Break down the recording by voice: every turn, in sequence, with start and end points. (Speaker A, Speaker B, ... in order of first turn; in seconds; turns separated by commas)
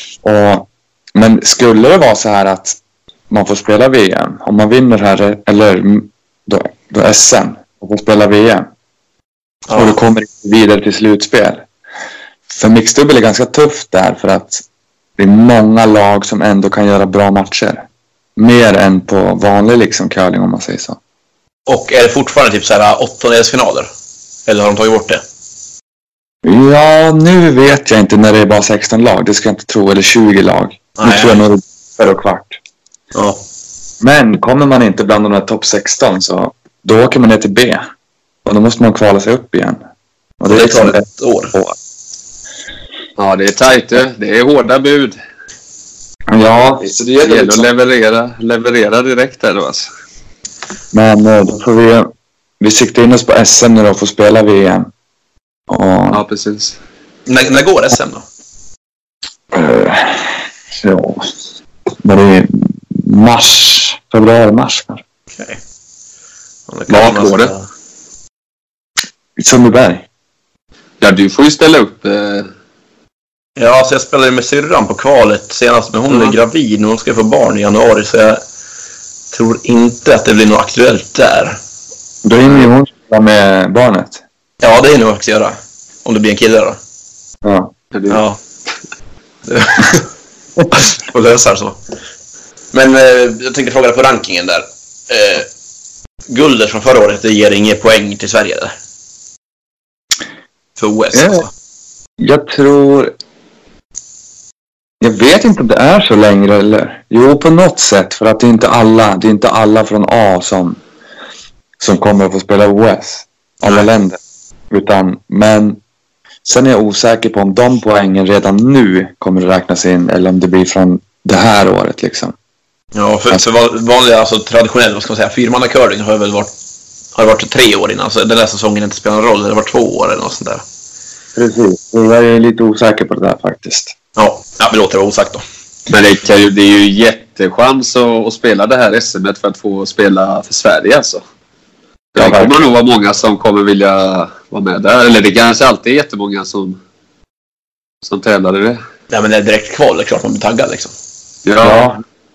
Speaker A: 0.2-2.8, Speaker A: 3.3-8.7, Speaker B: 9.7-10.0, Speaker A: 9.7-11.7, Speaker A: 12.5-14.6, Speaker A: 15.2-21.0, Speaker B: 21.6-23.9, Speaker B: 24.4-25.2, Speaker A: 26.4-32.6, Speaker B: 31.0-31.4, Speaker B: 33.1-33.4, Speaker A: 34.0-37.9, Speaker A: 38.4-39.8, Speaker A: 40.4-41.8, Speaker B: 40.5-41.5, Speaker C: 43.2-45.1, Speaker A: 46.3-47.7, Speaker C: 46.8-49.9, Speaker A: 50.9-54.9, Speaker A: 55.7-56.2, Speaker C: 56.1-56.8, Speaker B: 57.2-58.2, Speaker A: 59.5-61.3, Speaker A: 62.0-65.0, Speaker B: 65.3-65.6, Speaker B: 66.7-67.6, Speaker C: 66.9-67.5, Speaker A: 69.4-70.0, Speaker C: 71.0-72.5, Speaker B: 73.5-78.4, Speaker C: 76.1-76.3, Speaker B: 79.3-81.6, Speaker A: 82.2-84.2, Speaker B: 84.6-86.8, Speaker A: 87.4-87.7, Speaker C: 87.9-88.2, Speaker B: 88.1-88.4, Speaker B: 89.5-90.1, Speaker B: 90.7-91.8, Speaker B: 92.7-95.5, Speaker B: 96.3-98.7, Speaker B: 100.8-101.5, Speaker A: 101.1-101.5, Speaker A: 102.2-103.1, Speaker A: 105.0-110.8, Speaker A: 111.8-114.2, Speaker B: 113.6-113.9, Speaker A: 114.7-115.8, Speaker A: 116.4-122.3, Speaker B: 122.9-126.5, Speaker B: 127.1-130.6, Speaker A: 131.3-133.9, Speaker B: 134.2-135.4, Speaker C: 135.9-141.2, Speaker C: 142.1-146.8, Speaker A: 142.2-142.5, Speaker C: 148.0-148.8, Speaker B: 149.1-150.9, Speaker C: 151.4-151.9, Speaker A: 151.6-152.0